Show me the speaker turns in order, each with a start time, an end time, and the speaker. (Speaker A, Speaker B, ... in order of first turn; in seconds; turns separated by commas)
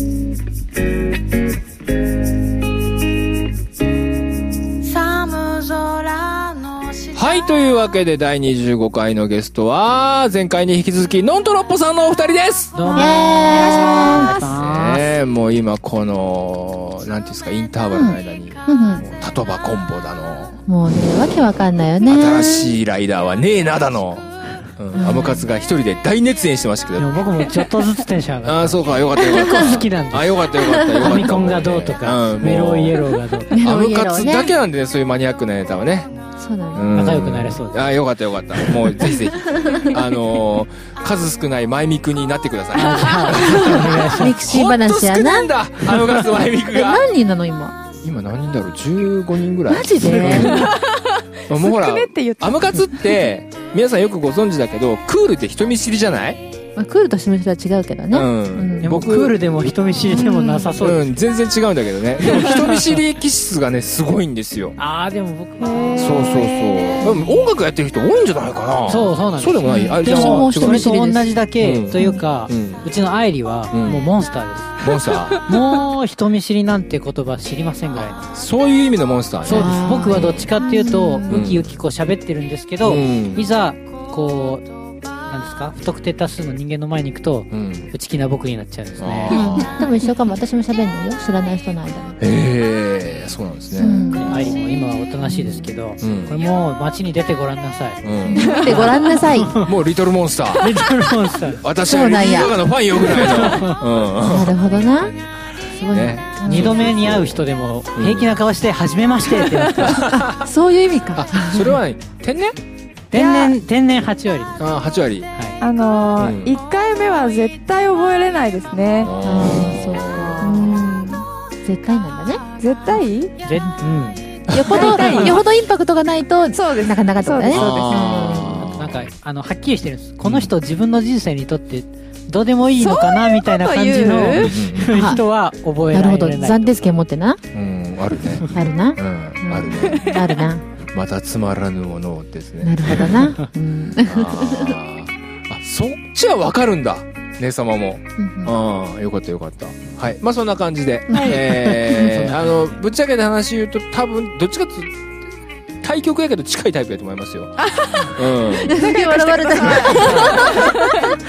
Speaker A: 4.8-7.7, Speaker B: 7.2-12.8, Speaker C: 12.8-15.1, Speaker A: 12.8-14.6, Speaker D: 12.9-14.3, Speaker B: 14.6-20.6, Speaker D: 17.9-19.0, Speaker D: 20.7-22.8, Speaker B: 22.0-27.2, Speaker D: 24.9-25.5, Speaker C: 27.0-30.4, Speaker B: 28.4-33.0, Speaker D: 29.3-29.8, Speaker D: 30.6-31.3, Speaker C: 30.9-33.6, Speaker D: 33.5-34.5, Speaker B: 33.6-36.1, Speaker D: 36.4-37.1, Speaker B: 36.7-47.1, Speaker C: 37.0-38.0, Speaker D: 39.0-40.0, Speaker C: 42.7-44.4, Speaker D: 43.3-45.5, Speaker D: 46.7-47.8, Speaker B: 48.0-50.7, Speaker D: 49.7-50.7, Speaker C: 49.9-50.6, Speaker A: 50.3-53.1, Speaker B: 51.5-56.4, Speaker D: 56.8-58.9, Speaker B: 58.1-59.4, Speaker C: 58.8-61.0, Speaker A: 60.1-60.8, Speaker D: 60.1-60.8, Speaker B: 60.8-64.8, Speaker C: 62.2-63.0, Speaker C: 64.8-66.3, Speaker A: 65.6-67.3, Speaker B: 66.0-71.0, Speaker C: 68.9-74.8, Speaker D: 69.7-71.3, Speaker B: 71.6-72.8, Speaker D: 72.0-72.2, Speaker B: 73.7-74.1, Speaker B: 74.8-75.4, Speaker C: 75.4-78.3, Speaker B: 77.9-80.5, Speaker C: 79.5-84.6, Speaker D: 79.5-81.5, Speaker B: 81.3-81.7, Speaker B: 82.8-83.5, Speaker C: 85.3-89.5, Speaker B: 87.5-87.9, Speaker B: 89.0-89.8, Speaker D: 89.3-92.2, Speaker B: 92.2-94.0, Speaker D: 93.8-94.6, Speaker C: 93.8-99.7, Speaker D: 95.2-95.8, Speaker B: 96.0-96.3, Speaker B: 98.0-98.9, Speaker D: 98.2-99.6, Speaker A: 98.3-99.2, Speaker B: 99.6-100.8, Speaker C: 100.5-101.7, Speaker B: 101.6-104.6, Speaker D: 101.9-102.6, Speaker C: 103.0-103.8, Speaker D: 104.2-105.2, Speaker D: 105.7-106.8, Speaker B: 105.8-107.4, Speaker C: 106.5-110.0, Speaker B: 108.0-108.3, Speaker A: 109.6-109.9, Speaker B: 109.8-110.5, Speaker D: 110.1-111.8, Speaker B: 111.1-112.6, Speaker C: 113.1-114.7, Speaker A: 113.2-113.5, Speaker B: 114.6-115.3, Speaker A: 115.6-119.1, Speaker B: 116.2-116.6, Speaker B: 119.0-120.4, Speaker D: 119.2-120.9, Speaker A: 120.4-121.3, Speaker D: 121.6-122.5, Speaker A: 122.6-123.3, Speaker C: 123.4-125.4, Speaker B: 124.5-124.9, Speaker D: 124.5-128.7, Speaker A: 124.7-125.4, Speaker A: 126.5-128.3, Speaker B: 127.5-129.1, Speaker C: 128.6-137.0, Speaker B: 130.2-130.5, Speaker A: 132.8-134.6, Speaker B: 134.4-135.0, Speaker D: 134.8-135.2, Speaker D: 135.9-137.4, Speaker B: 137.5-140.1, Speaker D: 138.5-140.7, Speaker A: 140.1-140.5, Speaker B: 140.9-143.3, Speaker D: 142.6-144.8, Speaker B: 144.0-154.9, Speaker D: 148.2-148.5, Speaker D: 151.1-151.4, Speaker C: 151.2-152.8, Speaker B: 155.8-158.8, Speaker A: 157.6-161.2, Speaker D: 158.6-161.2, Speaker B: 159.8-160.6